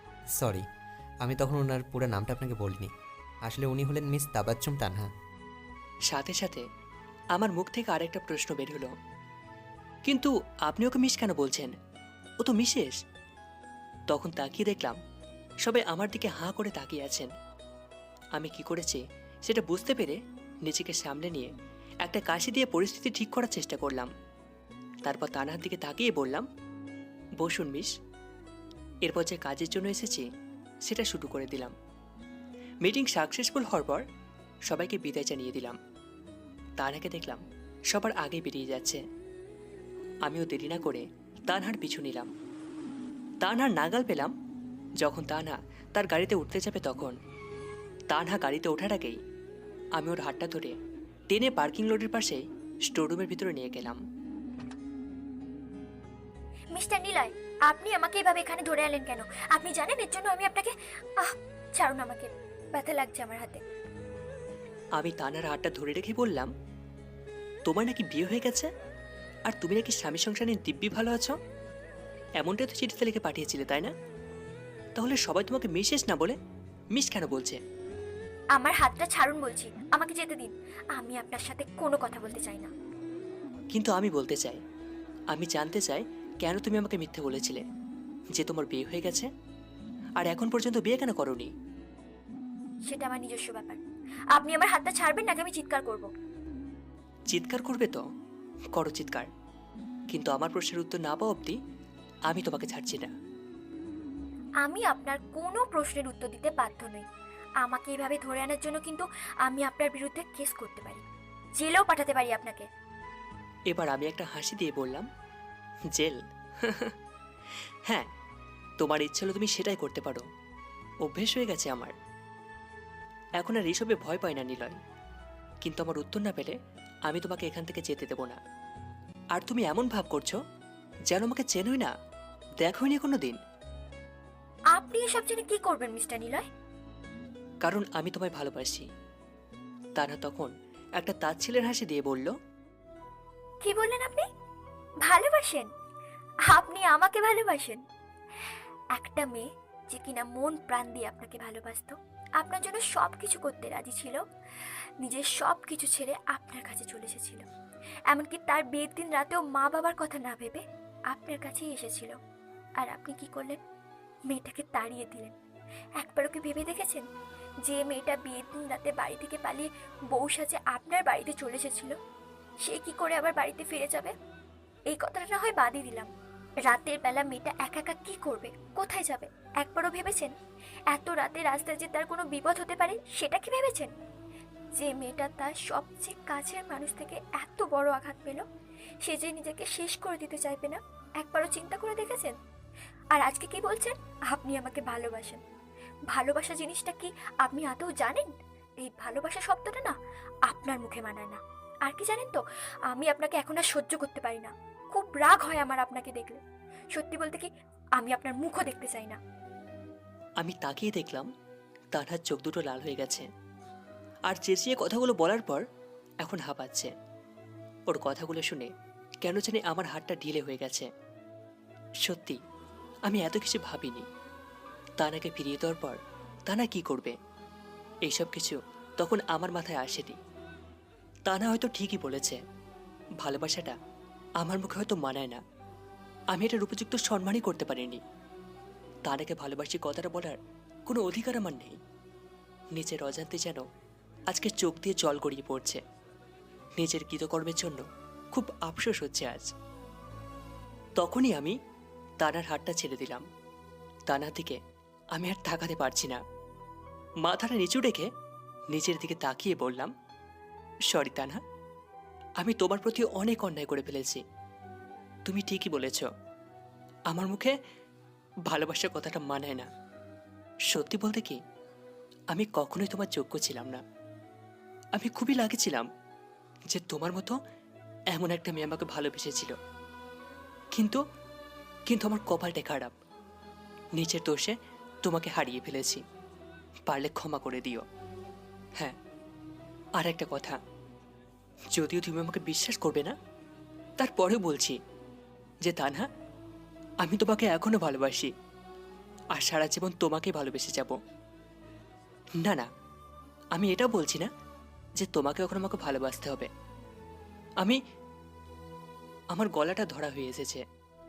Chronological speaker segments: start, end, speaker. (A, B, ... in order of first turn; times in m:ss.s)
0:00.4-0:00.6 A
0:01.2-0:02.9 A
0:03.4-0:05.1 A
0:06.1-0:06.6 B
0:07.4-0:08.9 B
0:10.1-0:11.7 B
0:12.4-0:13.0 B
0:14.1-0:15.0 B
0:15.6-0:17.3 B
0:18.4-0:21.5 B
0:22.0-0:24.1 B
0:25.1-0:26.5 B
0:27.4-0:27.9 B
0:29.0-0:30.3 B
0:30.8-0:31.7 B
0:32.8-0:34.1 B
0:34.7-0:35.8 B
0:36.8-0:39.0 B
0:40.3-0:42.3 B
0:43.4-0:44.3 B
0:45.0-0:47.2 B
0:48.1-0:49.2 B
0:50.0-0:50.8 B
0:51.3-0:54.0 B
0:56.7-1:03.6 C
1:05.0-1:06.5 B
1:07.7-1:08.7 B
1:09.5-1:11.4 B
1:12.4-1:13.9 B
1:15.0-1:16.4 B
1:16.9-1:17.6 B
1:18.5-1:22.7 C
1:23.7-1:24.6 B
1:25.3-1:27.6 B
1:28.4-1:29.3 B
1:30.2-1:31.5 B
1:32.9-1:33.8 C
1:34.3-1:36.1 C
1:37.3-1:38.0 B
1:38.8-1:39.3 B
1:40.1-1:41.6 B
1:42.3-1:43.1 B
1:44.6-1:47.1 C
1:47.6-1:51.0 C
1:51.6-1:52.7 C
1:53.7-1:55.1 B
1:55.9-1:56.9 B
1:58.8-2:00.2 B
2:01.0-2:02.0 B
2:03.4-2:04.8 B
2:05.6-2:06.6 B
2:07.1-2:08.4 B
2:09.4-2:10.4 B
2:11.1-2:11.9 B
2:12.6-2:13.4 B
2:14.7-2:16.4 C
2:17.6-2:18.9 B
2:20.0-2:22.4 B
2:23.6-2:24.3 C
2:25.0-2:25.7 C
2:26.5-2:27.8 C
2:28.9-2:37.5 C
2:38.1-2:42.2 C
2:42.8-2:43.6 C
2:44.3-2:45.4 C
2:46.0-2:47.1 C
2:47.6-2:52.0 C
2:52.6-2:54.1 C
2:54.9-2:56.1 C
2:56.6-3:00.4 C
3:00.9-3:03.9 C
3:04.8-3:08.4 C
3:09.0-3:12.4 C
3:13.1-3:15.4 C
3:16.1-3:26.4 C
3:26.9-3:29.2 C
3:30.4-3:31.3 B
3:31.9-3:33.3 B
3:34.3-3:35.6 B
3:36.2-3:36.9 B
3:37.9-3:38.7 B
3:39.2-3:40.9 B
3:42.0-3:42.4 B
3:43.1-3:44.1 B
3:45.0-3:47.2 B
3:48.1-3:50.2 B
3:51.3-3:52.4 B
3:53.2-3:53.8 B
3:54.4-3:55.4 B
3:56.3-3:58.0 B
3:59.1-4:01.8 B
4:02.8-4:03.6 B
4:04.3-4:05.8 B
4:06.8-4:09.5 B
4:11.0-4:11.6 B
4:12.2-4:13.3 B
4:14.1-4:14.6 B
4:15.1-4:16.2 B
4:17.2-4:18.1 B
4:18.7-4:19.9 B
4:20.9-4:21.4 B
4:22.4-4:24.2 B
4:25.3-4:26.1 B
4:27.1-4:27.6 B
4:28.5-4:29.7 B
4:30.7-4:31.4 B
4:32.3-4:33.8 B
4:35.0-4:35.9 B
4:36.7-4:37.4 B
4:38.1-4:39.6 B
4:40.8-4:41.0 B
4:41.9-4:42.9 B
4:44.0-4:46.0 B
4:46.9-4:47.8 B
4:50.0-4:50.6 B
4:51.7-4:53.2 B
4:54.0-4:54.8 B
4:55.6-4:56.1 B
4:57.0-4:58.3 B
4:59.3-5:01.0 B
5:02.4-5:02.7 B
5:03.6-5:04.3 B
5:05.0-5:06.5 B
5:09.3-5:10.6 B